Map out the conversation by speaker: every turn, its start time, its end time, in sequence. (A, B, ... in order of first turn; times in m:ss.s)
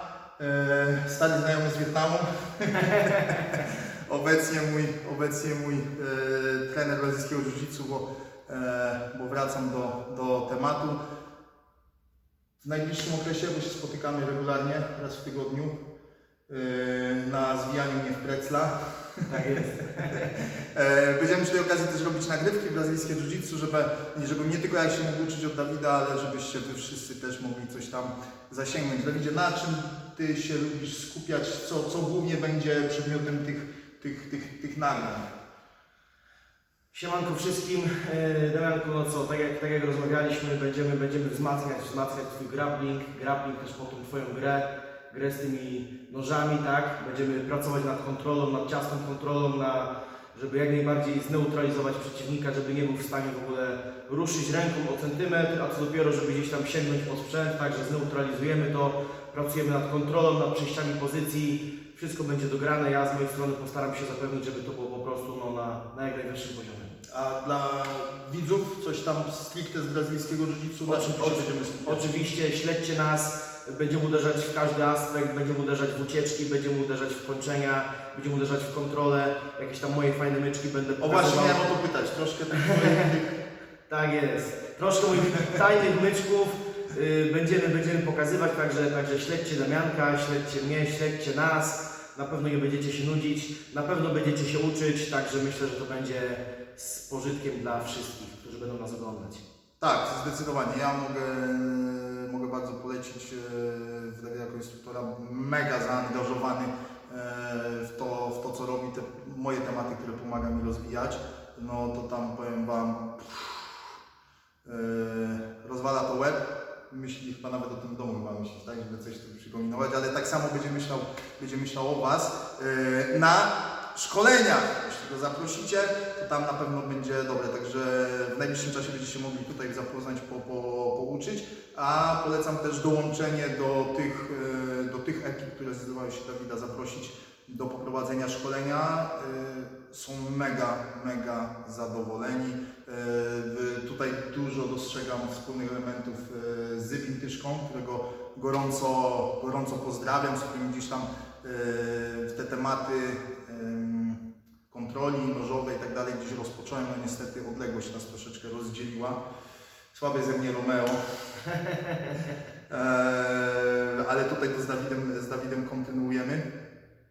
0:00.4-0:11.0 A
0:03.0-0:03.4 B
0:12.6-0:15.7 A
0:16.5-0:19.3 A
0:19.3-0:20.4 B
0:20.1-0:35.3 A
0:36.9-1:07.0 B
1:07.1-1:12.1 A
1:10.9-1:21.7 B
1:21.0-1:23.3 A
1:22.6-1:23.1 B
1:23.9-1:39.4 B
1:39.8-1:53.9 A
1:54.6-2:34.2 A
2:34.7-2:39.2 A
2:39.9-2:41.0 A
2:42.7-2:46.5 A